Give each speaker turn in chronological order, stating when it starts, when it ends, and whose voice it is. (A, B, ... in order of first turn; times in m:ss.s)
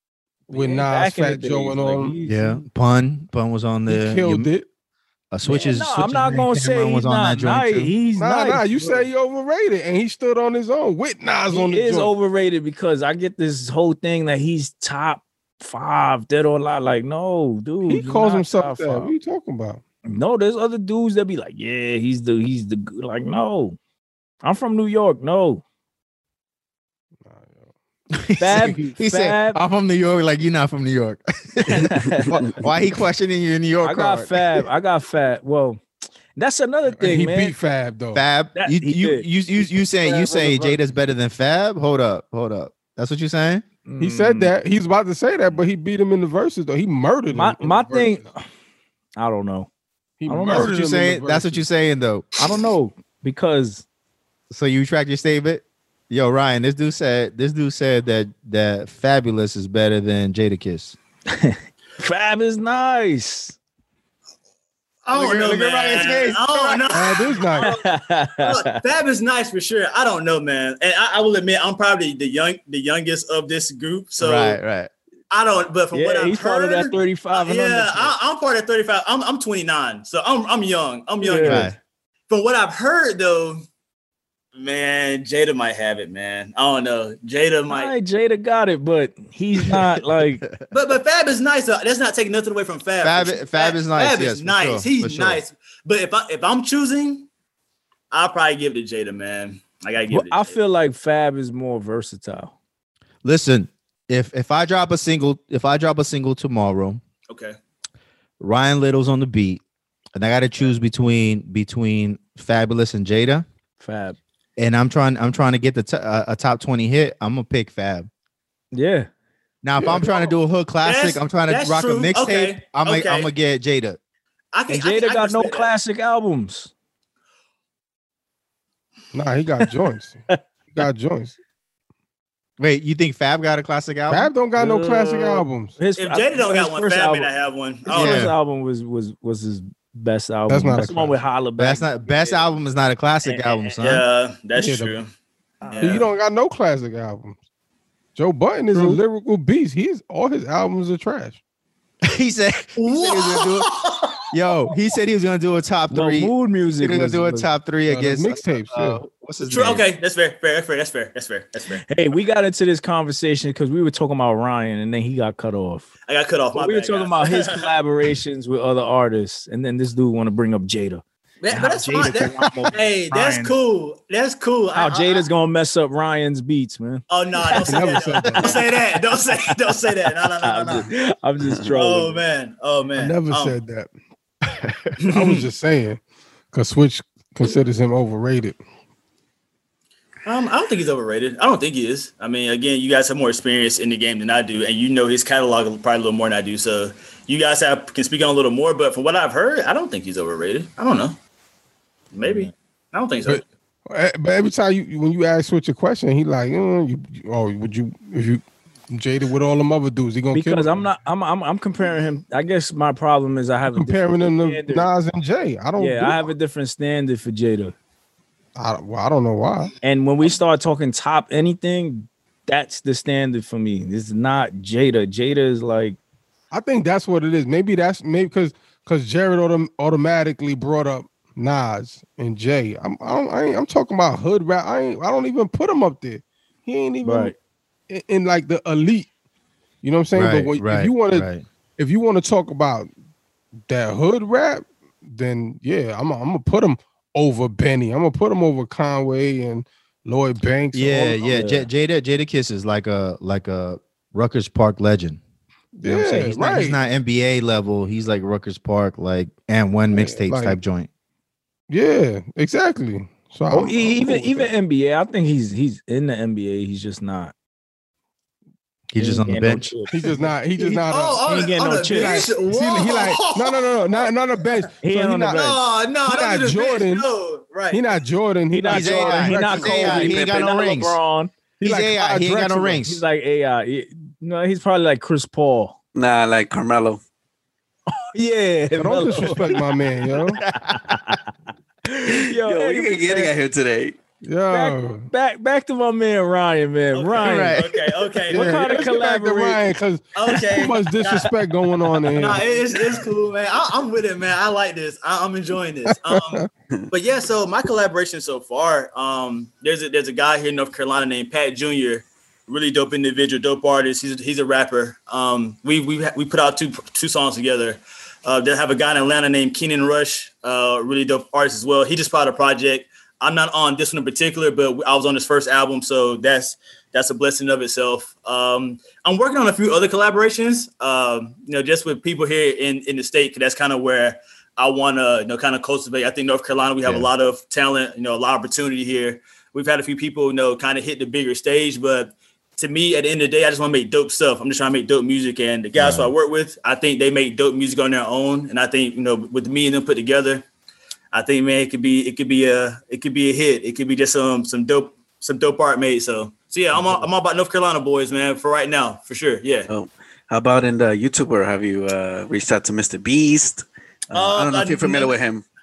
0:00.5-0:02.2 A
0:00.5-0:02.6 B
0:02.3-0:04.5 C
0:03.9-0:04.7 A
0:05.3-0:08.0 C
0:05.4-0:09.1 B
0:08.2-0:12.1 A
0:11.5-0:19.1 B
0:17.9-0:19.8 A
0:20.0-0:23.8 B
0:24.4-0:25.6 B
0:27.2-0:27.7 A
0:28.1-0:34.7 C
0:28.4-0:29.6 B
0:31.7-0:32.6 D
0:31.8-0:32.5 B
0:33.8-0:35.8 B
0:36.4-0:37.6 B
0:37.0-0:38.2 A
0:38.1-0:43.6 C
0:38.6-0:39.3 B
0:40.0-0:40.8 A
0:43.8-0:44.5 B
0:44.0-0:48.2 A
0:47.3-0:48.4 B
0:49.2-0:49.7 B
0:50.2-0:51.7 A
0:50.3-0:50.8 B
0:50.5-0:52.3 C
0:52.4-0:53.8 B
0:54.5-1:01.0 C
1:01.3-1:03.6 B
1:05.0-1:07.8 E
1:05.1-1:07.7 A
1:07.6-1:08.8 B
1:08.4-1:14.6 E
1:14.2-1:14.9 C
1:15.3-1:21.8 E
1:15.9-1:18.1 B
1:21.2-1:21.7 B
1:21.4-1:21.8 C
1:22.3-1:23.6 E
1:24.6-1:27.9 E
1:27.7-1:30.4 B
1:30.1-1:30.7 C
1:30.7-1:37.3 E
1:33.0-1:35.4 C
1:38.1-1:40.6 E
1:40.1-1:42.5 B
1:43.2-1:47.0 C
1:47.3-1:47.6 E
1:48.4-1:49.6 C
1:50.2-1:53.4 C
1:53.8-1:54.2 B
1:54.6-1:58.1 C
1:58.7-1:59.1 B
1:59.6-2:04.0 C
1:59.8-2:00.2 A
2:00.8-2:03.3 E
2:04.5-2:05.7 E
2:04.7-2:06.7 B
2:09.1-2:10.2 A
2:10.3-2:10.8 B
2:10.7-2:11.4 A
2:12.6-2:14.3 C
2:14.1-2:15.7 A
2:14.6-2:17.3 B
2:16.0-2:18.3 E
2:17.9-2:22.4 B
2:17.9-2:18.3 C
2:20.5-2:21.2 A
2:21.6-2:24.0 C
2:23.2-2:25.1 E
2:24.6-2:25.0 A
2:25.6-2:26.0 B
2:25.7-2:26.1 E
2:25.8-2:27.4 A
2:28.2-2:31.4 A
2:28.8-2:29.0 B
2:32.0-2:33.7 C
2:32.8-2:34.3 E
2:34.3-2:39.8 C
2:35.9-2:37.5 B
2:37.9-2:39.0 A
2:39.4-2:41.8 E
2:41.9-2:45.9 B
2:46.1-2:47.7 E
2:46.5-2:53.6 B
2:51.4-2:55.3 E
2:54.8-2:59.7 B
2:57.1-3:00.9 E
2:57.5-2:58.6 A
3:00.3-3:02.2 B
3:01.4-3:01.7 D
3:01.7-3:03.6 E
3:03.0-3:03.9 A
3:04.4-3:06.0 A
3:05.0-3:05.5 E
3:06.5-3:08.6 A
3:10.2-3:21.2 E
3:22.1-3:23.4 E
3:22.2-3:22.5 C
3:23.2-3:30.9 A
3:30.3-3:34.9 B
3:33.8-3:36.3 A
3:35.8-3:37.8 B
3:38.6-3:39.7 A
3:39.8-3:46.0 B
3:46.5-3:57.3 A
3:57.0-3:57.4 B
3:57.9-3:59.1 A
3:59.8-4:02.9 A
4:00.1-4:01.4 C
4:03.7-4:11.7 A
4:10.7-4:15.2 C
4:15.8-4:16.8 A
4:15.8-4:20.9 C
4:19.9-4:20.6 A
4:21.7-4:24.5 A
4:23.5-4:27.3 B
4:28.9-4:29.7 C
4:29.0-4:30.1 B
4:29.9-4:31.3 A
4:30.6-4:34.6 E
4:31.2-4:32.3 B
4:31.9-4:37.1 A
4:34.8-4:35.6 B
4:35.3-4:38.0 E
4:37.7-4:40.2 A
4:38.5-4:41.3 B
4:38.7-4:41.0 C
4:41.6-4:43.0 C
4:41.6-4:42.8 A
4:42.8-4:45.8 B
4:46.0-4:47.0 D
4:48.0-4:49.5 B
4:48.8-4:50.4 A
4:50.4-4:51.2 C
4:50.7-4:51.3 B
4:52.1-4:53.3 B
4:52.1-4:54.0 D
4:54.2-4:55.1 A
4:54.5-4:57.6 B
4:56.9-4:58.9 E
4:57.2-4:57.9 C
4:58.3-4:59.6 B
4:58.3-5:03.0 A
5:00.2-5:01.4 E
5:01.9-5:50.4 E
5:06.1-5:06.4 A
5:36.8-5:37.1 C
5:45.8-5:46.1 C
5:51.1-5:59.7 E
5:56.8-5:57.0 D
5:59.7-6:05.4 D
6:04.1-6:05.2 E